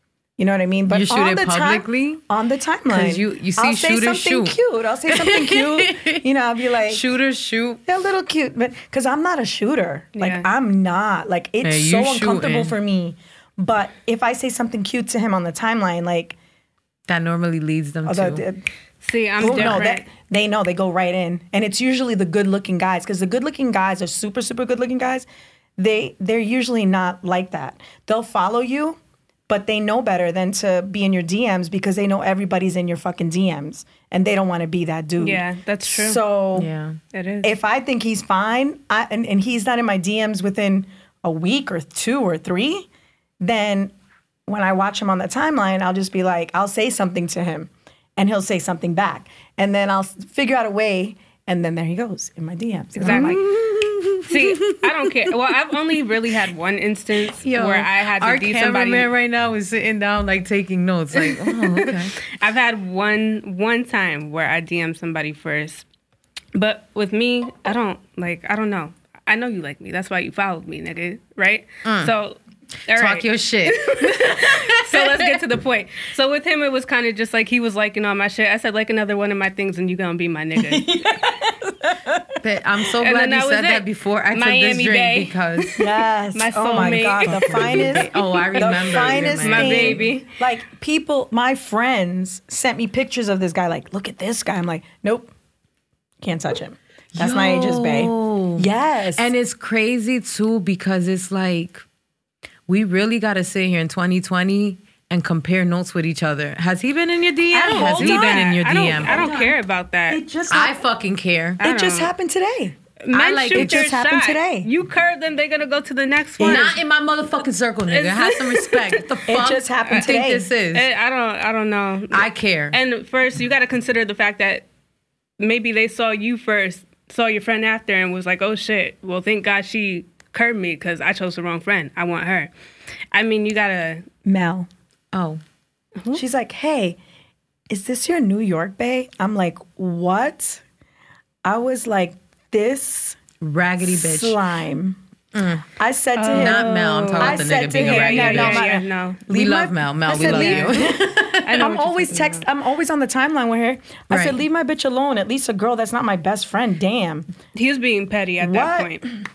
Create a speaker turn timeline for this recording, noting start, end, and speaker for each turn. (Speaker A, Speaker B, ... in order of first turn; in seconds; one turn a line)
Speaker A: 0.4-7.0
Speaker B: 0.9-2.2
Speaker B: 2.9-6.2
Speaker B: 6.8-7.8
Speaker A: 7.9-16.4
Speaker C: 10.2-10.5
Speaker B: 11.6-12.7
Speaker B: 17.1-18.4
Speaker A: 18.1-18.6
Speaker C: 19.0-20.1
Speaker A: 19.4-25.3
Speaker B: 19.4-19.8
Speaker A: 25.8-29.0
Speaker A: 29.5-36.7
Speaker C: 35.2-36.2
Speaker B: 36.5-37.0
Speaker C: 37.1-37.5
Speaker A: 37.4-42.9
Speaker A: 43.4-43.9
Speaker A: 44.5-53.4
Speaker C: 53.0-53.5
Speaker B: 53.0-55.3
Speaker C: 54.2-59.1
Speaker B: 57.3-62.1
Speaker C: 61.1-65.9
Speaker C: 66.5-81.3
Speaker B: 71.8-72.1
Speaker B: 72.9-75.3
Speaker A: 80.6-82.4
Speaker B: 82.4-85.8
Speaker C: 83.0-90.3
Speaker A: 85.8-95.3
Speaker B: 86.8-90.0
Speaker A: 96.2-99.3
Speaker B: 97.1-101.8
Speaker B: 102.7-109.4
Speaker A: 107.5-109.5
Speaker C: 107.6-110.2
Speaker A: 110.1-110.8
Speaker B: 110.5-111.6
Speaker C: 111.6-112.1
Speaker A: 111.6-112.8
Speaker C: 113.0-116.8
Speaker B: 113.1-113.8
Speaker A: 113.5-114.7
Speaker A: 116.4-116.7
Speaker B: 116.4-120.9
Speaker C: 117.9-119.0
Speaker A: 119.2-120.5
Speaker C: 120.7-124.7
Speaker B: 122.1-122.8
Speaker C: 125.4-132.5
Speaker C: 133.1-134.1
Speaker A: 134.2-134.7
Speaker B: 135.1-135.4
Speaker A: 136.1-137.0
Speaker A: 137.7-140.6
Speaker A: 141.4-143.2
Speaker B: 143.4-144.4
Speaker A: 143.8-145.0
Speaker B: 145.3-145.7
Speaker A: 145.8-157.3
Speaker C: 146.2-149.2
Speaker B: 146.3-148.7
Speaker B: 149.3-151.6
Speaker C: 150.1-150.8
Speaker C: 151.4-152.4
Speaker B: 154.1-154.4
Speaker C: 157.5-159.1
Speaker A: 158.4-159.1